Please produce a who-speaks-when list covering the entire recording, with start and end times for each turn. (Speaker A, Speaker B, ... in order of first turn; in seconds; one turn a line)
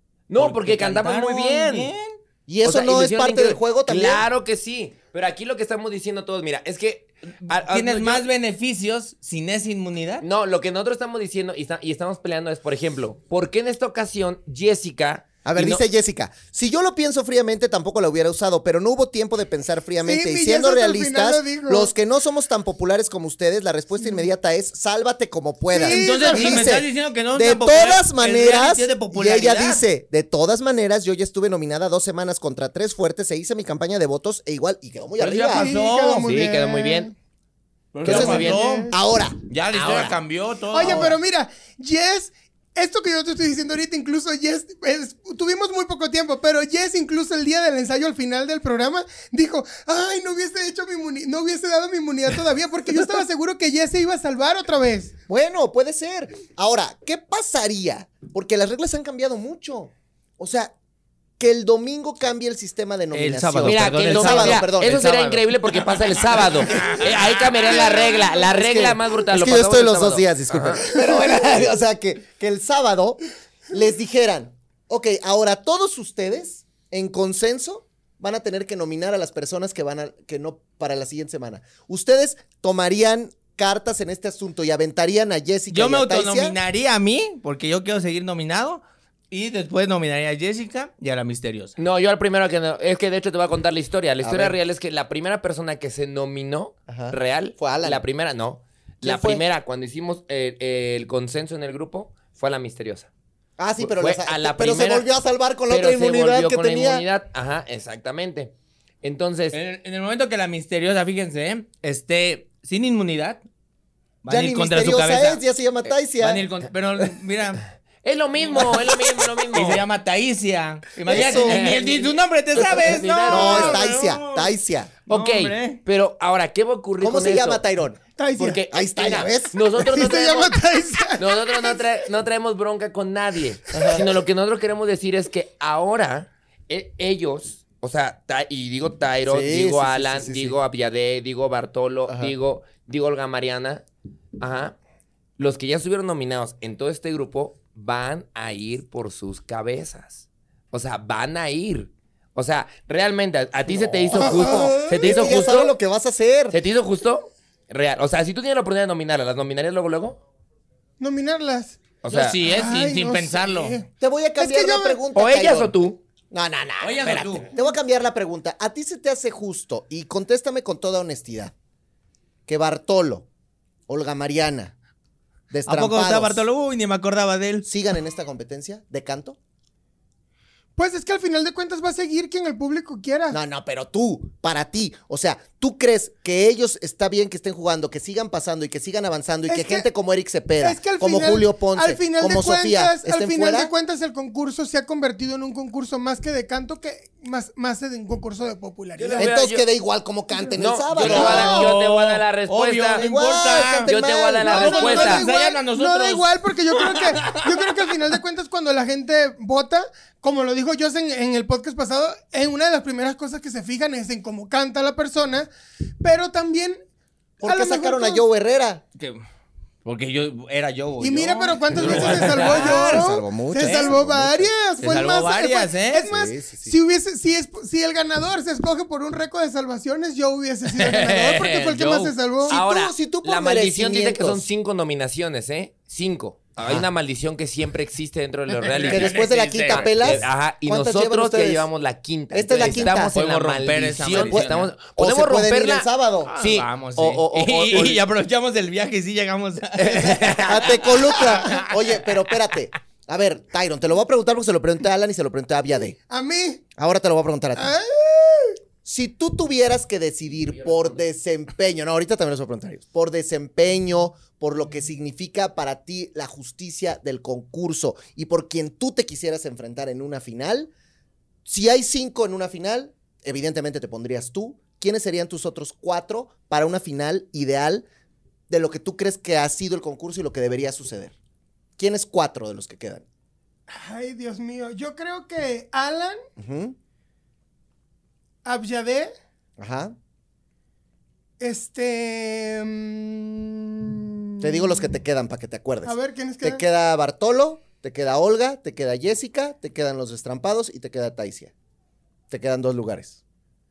Speaker A: 0.3-1.9
Speaker B: 0.3-3.6
Speaker C: 2.5-4.2
Speaker A: 2.7-8.2
Speaker B: 7.5-10.2
Speaker A: 10.2-15.8
Speaker C: 15.4-35.7
Speaker D: 20.0-21.9
Speaker D: 25.7-26.8
Speaker B: 25.9-29.8
Speaker B: 35.2-36.5
Speaker D: 35.5-37.1
Speaker A: 36.2-37.1
Speaker B: 37.9-39.0
Speaker D: 38.0-38.9
Speaker C: 38.0-40.1
Speaker A: 38.1-38.7
Speaker B: 39.5-41.2
Speaker A: 39.8-40.1
Speaker D: 40.7-55.1
Speaker C: 40.9-41.1
Speaker C: 55.3-60.7
Speaker C: 61.4-65.0
Speaker B: 63.1-67.8
Speaker A: 63.6-70.8
Speaker C: 66.8-73.2
Speaker C: 73.7-86.6
Speaker B: 85.7-91.8
Speaker A: 91.8-103.1
Speaker C: 94.2-94.6
Speaker C: 96.9-98.0
Speaker C: 99.0-99.4
Speaker C: 103.6-107.0
Speaker A: 103.8-105.1
Speaker A: 105.7-109.6
Speaker B: 109.5-113.4
Speaker B: 114.2-115.4
Speaker C: 114.3-116.4
Speaker B: 116.2-117.7
Speaker A: 118.0-119.9
Speaker B: 118.5-124.5
Speaker C: 121.1-121.7
Speaker A: 121.1-123.8
Speaker D: 123.3-123.7
Speaker C: 123.3-124.9
Speaker A: 125.1-127.6
Speaker B: 125.1-125.8
Speaker C: 127.0-129.6
Speaker D: 128.2-128.6
Speaker A: 128.4-130.6
Speaker D: 129.7-131.9
Speaker A: 131.2-143.9
Speaker C: 133.7-134.1
Speaker C: 139.3-140.6
Speaker C: 142.1-142.3
Speaker A: 144.4-144.8
Speaker A: 145.4-155.8
Speaker C: 153.7-156.6
Speaker D: 154.1-155.1
Speaker A: 156.5-160.2
Speaker D: 161.0-165.0
Speaker A: 162.0-162.4
Speaker B: 162.1-163.8
Speaker C: 164.0-171.5
Speaker A: 165.1-166.0
Speaker B: 166.8-167.5
Speaker C: 172.5-173.3
Speaker C: 173.9-174.7
Speaker C: 175.5-176.5
Speaker B: 175.7-177.6
Speaker C: 177.6-179.4
Speaker D: 180.8-183.4
Speaker C: 183.3-193.7
Speaker D: 189.5-189.9
Speaker D: 190.6-199.3
Speaker A: 199.0-199.7
Speaker C: 199.1-201.7
Speaker A: 200.6-203.1
Speaker B: 200.9-204.0
Speaker D: 201.1-201.7
Speaker C: 202.9-205.1
Speaker A: 203.8-205.3
Speaker D: 204.5-215.5
Speaker B: 204.5-207.9
Speaker D: 216.0-216.8
Speaker D: 217.4-218.2
Speaker C: 217.4-218.8
Speaker B: 219.0-219.2
Speaker B: 219.8-224.0
Speaker D: 221.0-232.6
Speaker C: 221.8-224.5
Speaker B: 224.8-226.1
Speaker C: 226.0-226.8
Speaker A: 230.8-231.8
Speaker B: 231.7-232.1
Speaker C: 232.5-234.5
Speaker A: 232.5-248.0
Speaker C: 236.6-236.9
Speaker B: 238.5-240.3
Speaker C: 238.8-241.7
Speaker C: 242.3-243.1
Speaker B: 242.5-244.8
Speaker C: 244.1-246.3
Speaker B: 246.3-252.1
Speaker A: 249.8-250.7
Speaker C: 250.3-256.0
Speaker D: 256.1-256.6
Speaker C: 256.8-257.7
Speaker D: 257.6-258.6
Speaker C: 258.9-270.7
Speaker A: 260.5-260.9
Speaker C: 271.5-277.9
Speaker C: 278.5-281.1
Speaker C: 281.8-283.1
Speaker D: 283.7-286.2
Speaker C: 286.4-286.8
Speaker D: 288.4-289.1
Speaker C: 289.6-290.0
Speaker D: 291.4-293.8
Speaker D: 294.4-294.9
Speaker C: 294.4-301.5
Speaker D: 295.9-296.6
Speaker C: 302.3-303.2